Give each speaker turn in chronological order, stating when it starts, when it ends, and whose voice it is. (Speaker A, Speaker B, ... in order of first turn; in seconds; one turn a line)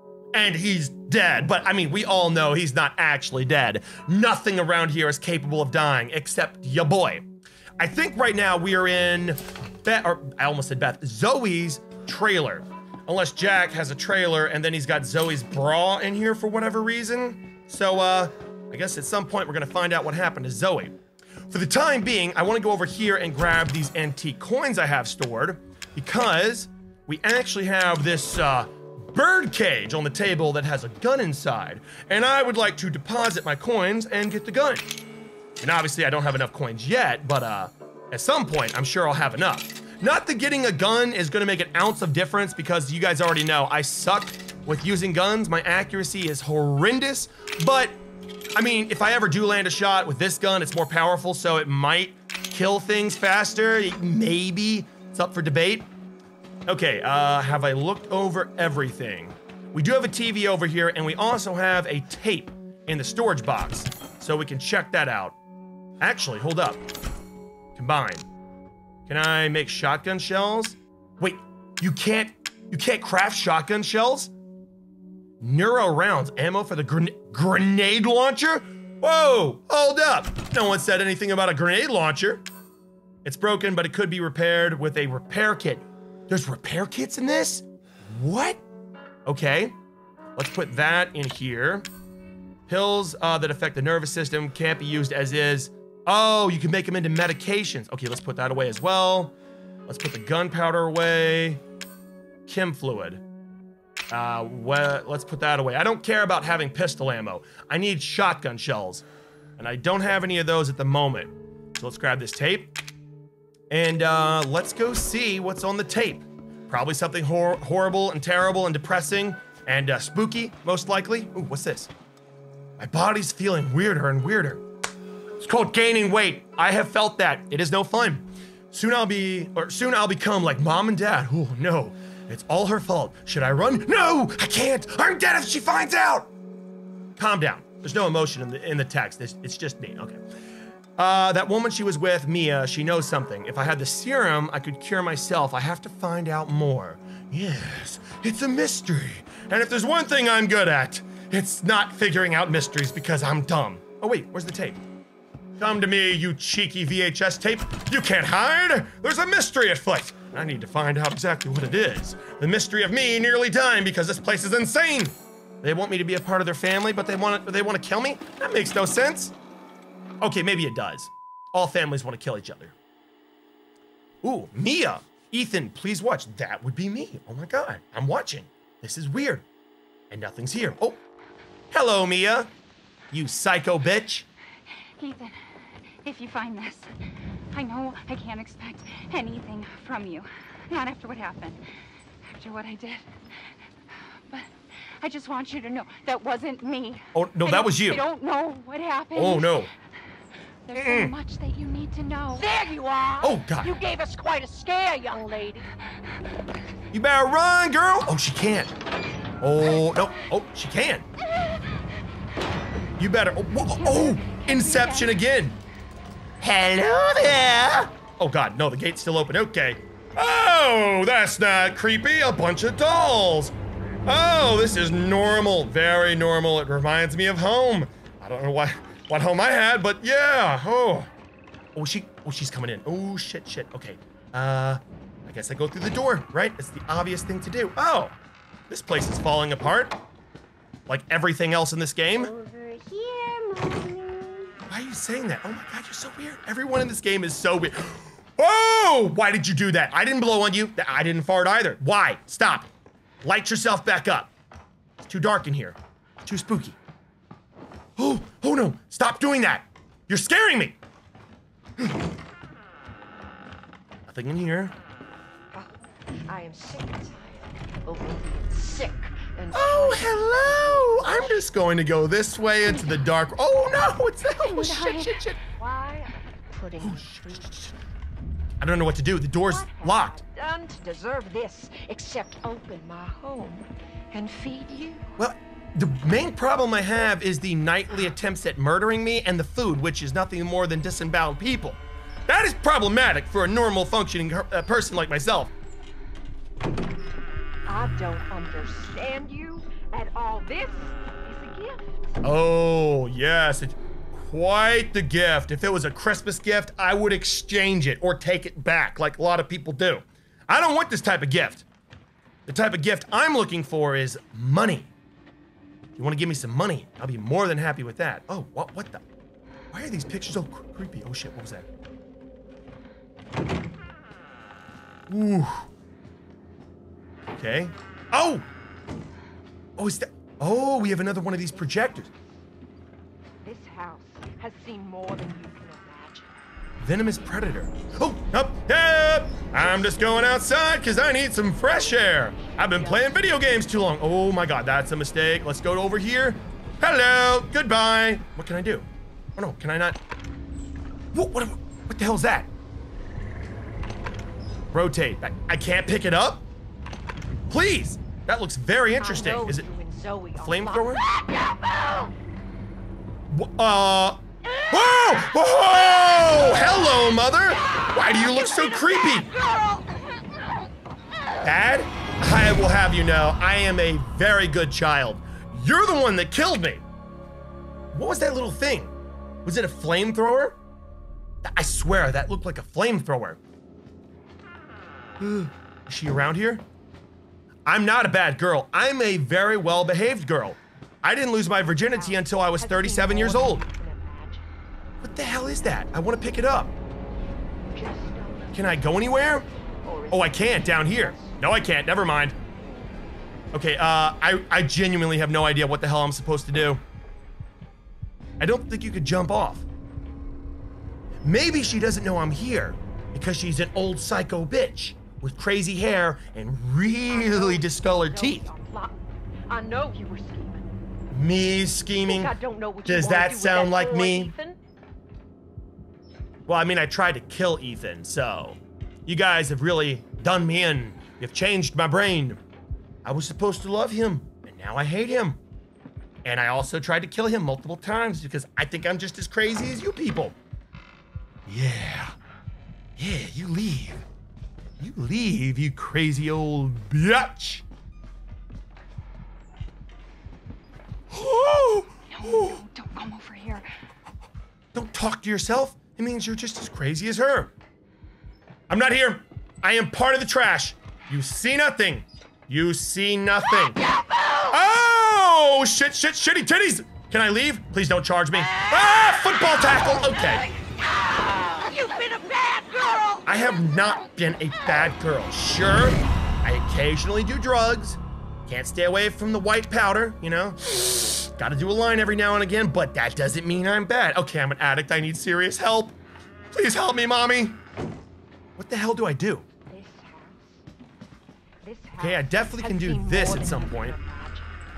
Speaker A: 0.3-7.2
Speaker A: 7.8-20.9
Speaker A: 21.5-34.9
Speaker A: 35.6-48.0
Speaker A: 48.5-55.9
Speaker A: 56.7-65.3
Speaker A: 66.0-66.8
Speaker A: 67.7-68.3
Speaker A: 69.0-74.3
Speaker A: 75.4-82.4
Speaker A: 83.2-88.6
Speaker A: 89.2-89.7
Speaker A: 90.3-91.9
Speaker A: 92.7-99.3
Speaker A: 99.9-101.6
Speaker A: 102.5-103.2
Speaker A: 104.1-109.0
Speaker A: 109.6-112.7
Speaker A: 113.7-121.9
Speaker A: 122.8-124.6
Speaker A: 125.4-136.3
Speaker A: 137.2-140.2
Speaker A: 141.0-154.8
Speaker A: 155.6-169.3
Speaker A: 170.2-172.7
Speaker A: 174.2-179.4
Speaker A: 180.1-181.0
Speaker A: 181.7-182.5
Speaker A: 183.1-184.3
Speaker B: 185.0-185.3
Speaker B: 186.0-186.9
Speaker B: 187.5-191.6
Speaker B: 192.3-193.5
Speaker B: 194.3-199.7
Speaker A: 197.1-198.0
Speaker A: 199.1-199.7
Speaker B: 200.7-202.5
Speaker A: 200.7-201.1
Speaker C: 202.4-205.7
Speaker A: 203.2-203.7
Speaker A: 206.9-208.7
Speaker A: 209.4-211.1
Speaker A: 213.0-215.6
Speaker B: 213.6-215.2
Speaker A: 216.4-223.5
Speaker A: 224.1-231.1
Speaker A: 231.7-238.1
Speaker A: 238.7-239.9
Speaker A: 240.9-242.3
Speaker C: 243.0-243.5
Speaker A: 244.7-252.7
Speaker A: 253.2-254.3
Speaker A: 255.0-256.8
Speaker A: 258.0-260.8
Speaker A: 264.1-264.7
Speaker C: 266.2-271.4
Speaker A: 269.5-275.4
Speaker B: 274.4-275.3
Speaker C: 275.4-277.6
Speaker A: 276.8-277.7
Speaker A: 278.6-280.2
Speaker C: 279.4-285.1
Speaker A: 285.2-295.5
Speaker C: 297.6-301.9
Speaker A: 302.2-311.6
Speaker A: 312.5-314.9
Speaker A: 315.9-319.0
Speaker A: 319.7-321.6
Speaker A: 325.1-325.7
Speaker A: 327.3-328.4
Speaker A: 329.8-332.1
Speaker C: 331.5-332.4
Speaker C: 333.4-336.4
Speaker A: 336.8-350.0
Speaker C: 341.6-343.4
Speaker A: 351.1-352.5
Speaker A: 354.7-356.4
Speaker A: 357.5-359.6
Speaker C: 359.0-362.1
Speaker A: 360.4-361.0
Speaker A: 363.3-369.3
Speaker C: 364.5-370.4
Speaker A: 371.4-376.8
Speaker A: 377.9-378.9
Speaker A: 379.4-380.6
Speaker A: 381.4-383.4
Speaker A: 385.2-386.6
Speaker A: 387.6-393.6
Speaker C: 391.9-394.5
Speaker A: 395.0-396.7
Speaker C: 397.7-401.4
Speaker A: 398.5-399.4
Speaker A: 400.1-402.4
Speaker A: 403.5-406.8
Speaker A: 408.4-409.6
Speaker A: 411.2-418.5
Speaker C: 417.1-419.0
Speaker C: 419.5-420.7
Speaker A: 421.1-422.3
Speaker C: 422.1-424.6
Speaker A: 422.9-424.3
Speaker A: 426.5-432.4
Speaker A: 433.0-435.4
Speaker A: 436.2-440.4
Speaker A: 441.5-442.1
Speaker A: 443.0-444.0
Speaker A: 444.8-447.6
Speaker A: 451.1-452.6
Speaker B: 452.1-453.7
Speaker A: 454.7-457.5
Speaker A: 458.7-463.8
Speaker C: 463.6-464.6
Speaker A: 464.5-470.5
Speaker C: 468.4-473.3
Speaker A: 473.2-485.9
Speaker A: 486.5-487.6
Speaker A: 488.6-489.5
Speaker C: 489.7-490.6
Speaker C: 491.6-494.6
Speaker A: 492.0-493.9